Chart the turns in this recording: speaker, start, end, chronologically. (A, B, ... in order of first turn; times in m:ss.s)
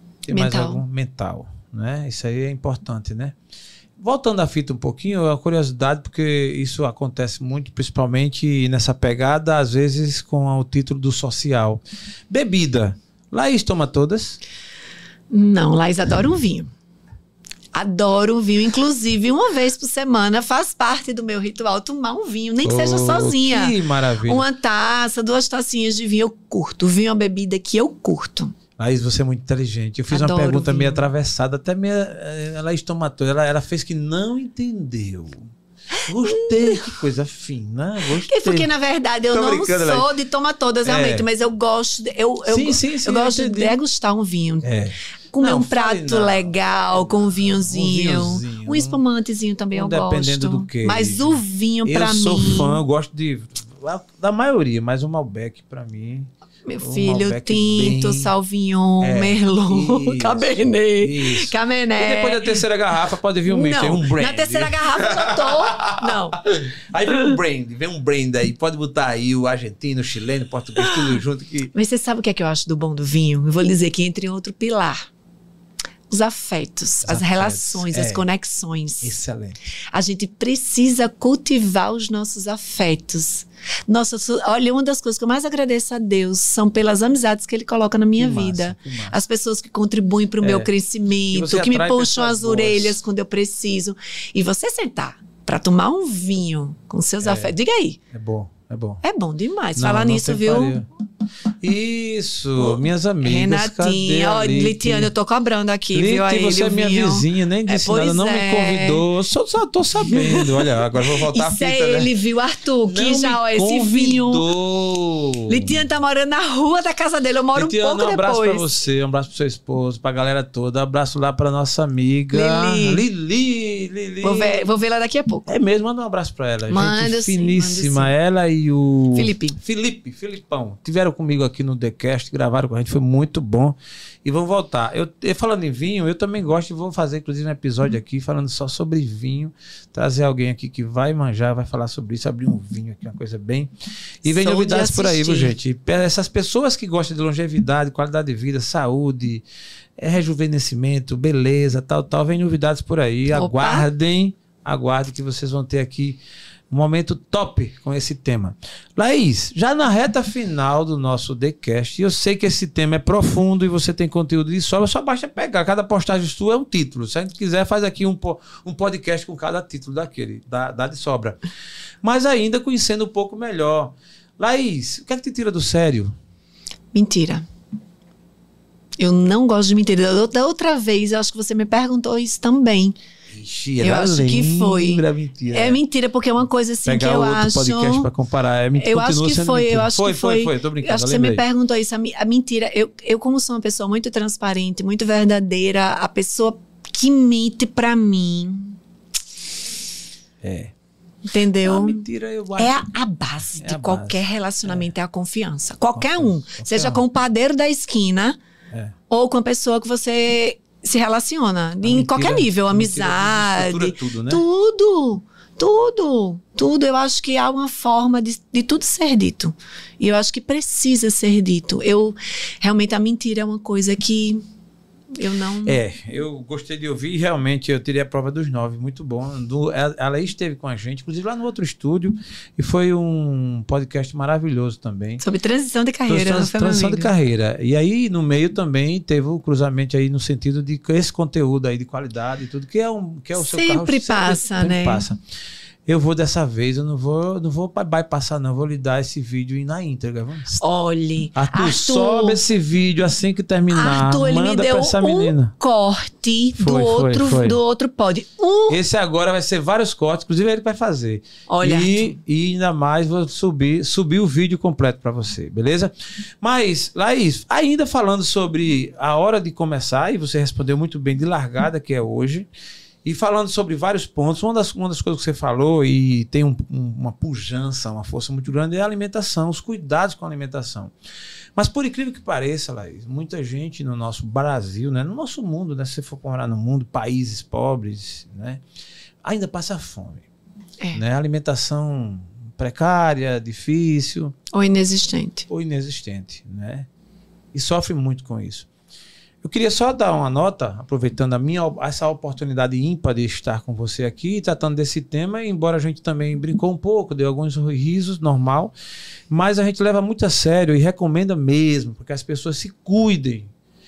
0:00.3-0:03.4 A
0:00.3-0:00.8 B
0:04.0-0:14.4 A
0:15.3-0:16.7 B
0:17.7-0:28.6 B
0:22.6-0:24.5 A
0:28.8-0:35.5 A
0:30.1-0:31.0 B
0:36.0-0:36.9 B
0:36.0-0:38.7 A
0:38.2-0:44.7 B
0:39.3-0:40.1 A
0:40.8-0:41.2 A
0:42.5-0:43.8 A
0:44.6-0:49.0 A
0:45.3-0:52.8 B
0:49.7-0:58.3 A
0:56.6-1:02.6 B
0:59.0-1:11.7 A
1:03.4-1:06.4 B
1:11.7-1:15.0 B
1:16.1-1:19.2 B
1:17.0-1:18.2 A
1:19.0-1:19.6 A
1:19.9-1:38.0 B
1:28.2-1:29.2 A
1:30.4-1:30.7 A
1:31.3-1:33.0 A
1:37.2-1:37.6 A
1:38.1-1:39.0 A
1:39.0-1:40.8 B
1:39.8-1:40.9 A
1:41.6-1:45.1 A
1:42.6-1:49.0 B
1:45.9-1:52.1 A
1:50.0-1:54.4 B
1:52.9-1:55.7 A
1:55.5-1:58.7 B
1:57.5-2:04.6 A
2:02.3-2:03.0 B
2:04.2-2:05.5 B
2:05.4-2:23.7 A
2:06.7-2:08.1 B
2:09.1-2:09.6 B
2:24.2-2:29.4 A
2:24.2-2:25.5 B
2:30.0-2:51.4 A
2:33.3-2:33.8 B
2:52.0-2:56.1 A
2:56.9-2:57.4 B
2:59.0-3:03.0 B
3:03.3-3:05.8 A
3:03.8-3:08.1 B
3:06.8-3:11.4 A
3:08.8-3:18.8 B
3:20.4-3:20.7 A
3:21.2-3:22.0 B
3:21.6-3:22.8 A
3:22.6-3:28.4 B
3:23.6-3:24.9 A
3:25.9-3:27.0 A
3:29.1-3:44.4 B
3:31.8-3:34.4 A
3:45.1-3:45.8 B
3:45.6-3:55.2 A
3:55.2-3:57.1 B
3:56.1-4:05.2 A
4:03.4-4:05.0 B
4:05.8-4:10.6 A
4:10.6-4:12.4 B
4:11.4-4:15.5 A
4:13.7-4:18.8 B
4:16.6-4:17.6 A
4:18.7-4:32.5 A
4:21.5-4:22.2 B
4:33.0-4:40.9 A
4:41.6-4:48.6 A
4:49.2-4:50.2 A
4:50.9-4:54.3 A
4:54.5-4:55.5 B
4:55.5-4:56.9 A
4:57.5-4:58.7 A
4:59.4-5:08.7 A
5:09.3-5:13.5 A